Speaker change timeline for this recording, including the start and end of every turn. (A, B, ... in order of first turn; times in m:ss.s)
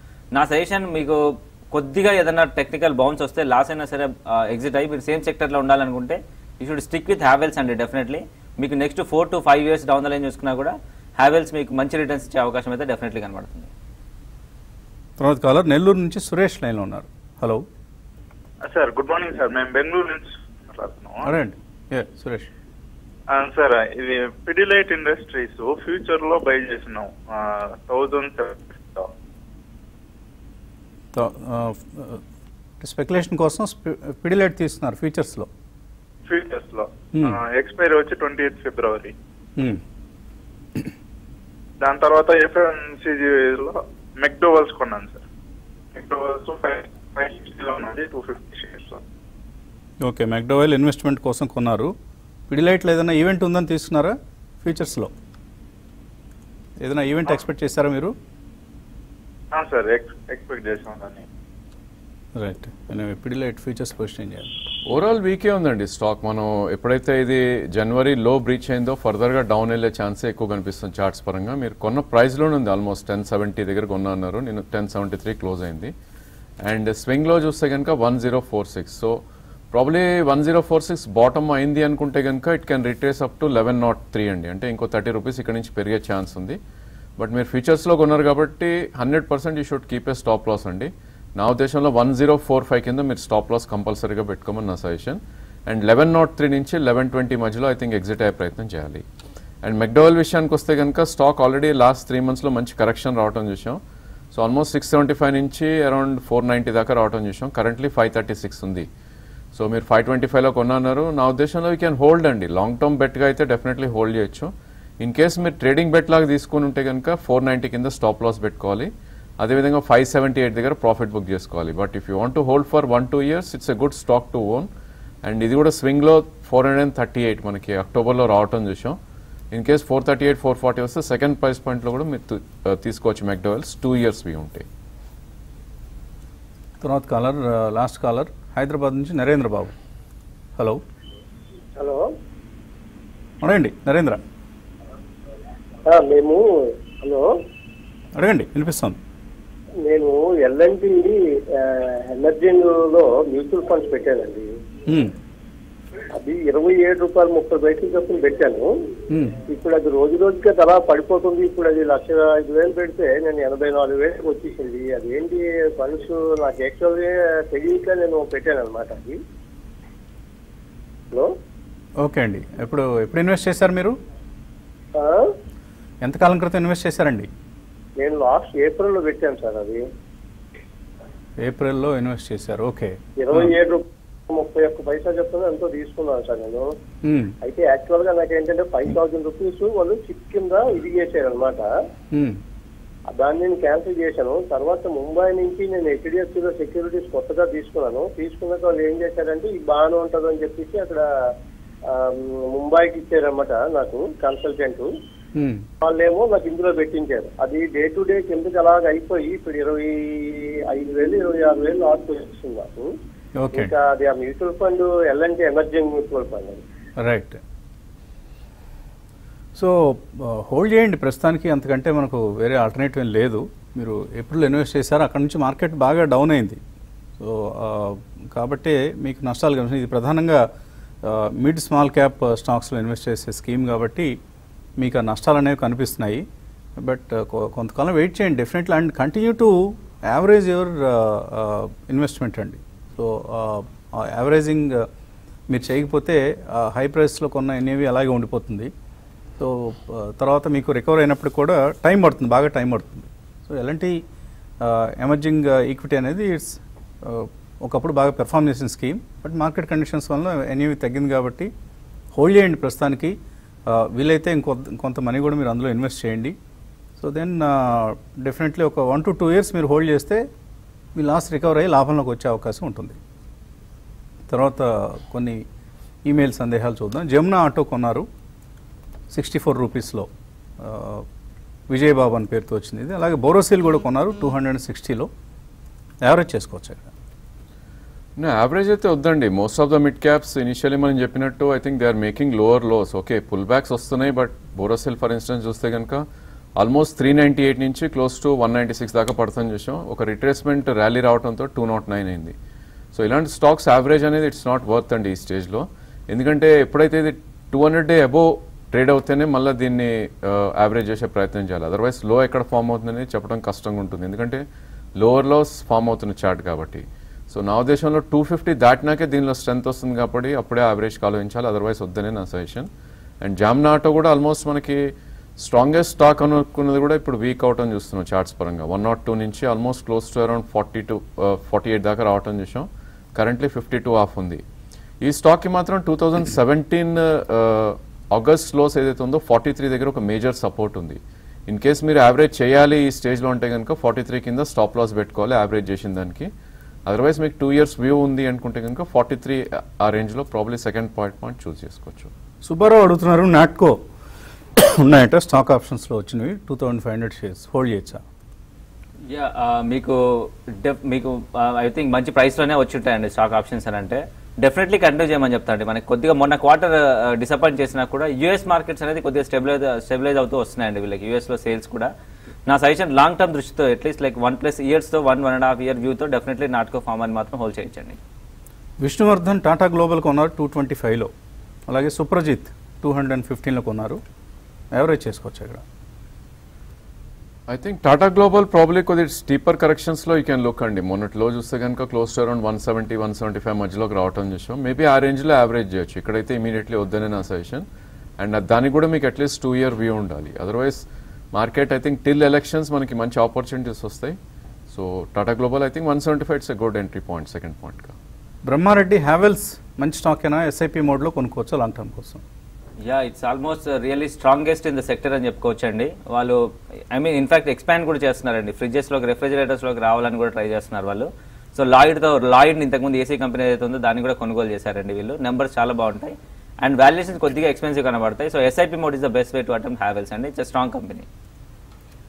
0:00.3-0:13.7 A
0:15.2-0:17.6 B
0:18.6-0:21.3 C
0:21.2-0:22.5 B
0:23.3-0:29.1 C
0:31.1-0:32.2 B
0:32.8-0:35.5 B
0:36.2-0:39.2 C
0:37.1-0:37.4 B
0:39.6-0:39.8 B
0:41.8-0:45.2 C
0:45.9-0:49.0 C
0:50.0-0:51.9 B
0:52.5-0:55.1 B
0:56.8-0:58.1 B
0:59.5-1:01.2 C
1:02.4-1:04.5 B
1:04.9-1:15.9 D
1:16.6-1:26.6 D
1:27.2-1:39.0 D
1:39.6-1:43.8 D
1:44.3-1:48.9 D
1:49.5-2:04.7 D
2:05.2-2:09.0 D
2:09.5-2:14.7 D
2:16.8-2:19.7 B
2:21.8-2:22.1 E
2:23.4-2:24.2 B
2:25.9-2:26.4 E
2:27.0-2:27.3 E
2:28.2-2:29.0 B
2:29.8-2:34.5 E
2:34.9-2:35.1 B
2:36.1-2:38.7 E
2:39.1-2:39.4 B
2:39.5-2:49.2 E
2:52.0-2:54.0 B
2:55.0-2:55.4 E
2:56.0-2:57.3 B
2:58.0-2:59.8 E
3:01.4-3:03.5 B
3:03.2-3:06.7 E
3:07.0-3:07.3 B
3:07.4-3:11.7 E
3:12.1-3:12.4 B
3:13.2-3:21.0 E
3:21.9-3:24.9 E
3:25.4-3:25.7 B
3:25.8-3:32.9 E
3:33.4-3:33.7 B
3:33.5-3:36.6 E
3:37.0-3:37.4 B
3:39.6-3:46.6 B
3:47.2-3:50.4 B
3:51.0-3:54.2 B
3:54.8-3:56.2 B
3:56.8-4:04.9 B
4:05.5-4:08.7 B
4:09.4-4:14.0 B
4:14.6-4:21.5 B
4:22.1-4:23.2 B
4:23.7-4:26.4 B
4:27.0-4:30.2 B
4:31.0-4:33.0 B
4:34.3-4:35.4 B
4:36.1-4:38.1 B
4:39.1-4:40.1 B
4:40.6-4:41.1 B
4:41.7-4:45.1 B
4:46.0-4:46.9 B
4:48.2-4:56.0 D
4:56.6-5:02.4 D
5:02.9-5:14.4 D
5:15.0-5:22.7 D
5:23.2-5:34.4 D
5:35.0-5:46.3 D
5:46.9-5:52.1 D
5:52.4-5:53.8 B
5:54.6-5:58.0 B
5:59.1-6:11.9 A
6:12.5-6:18.0 A
6:18.8-6:21.1 B
6:21.7-6:24.0 B
6:24.7-6:25.6 B
6:27.5-6:37.6 D
6:38.2-6:44.2 D
6:44.7-6:48.0 D
6:48.4-6:52.2 B
6:52.8-7:11.1 A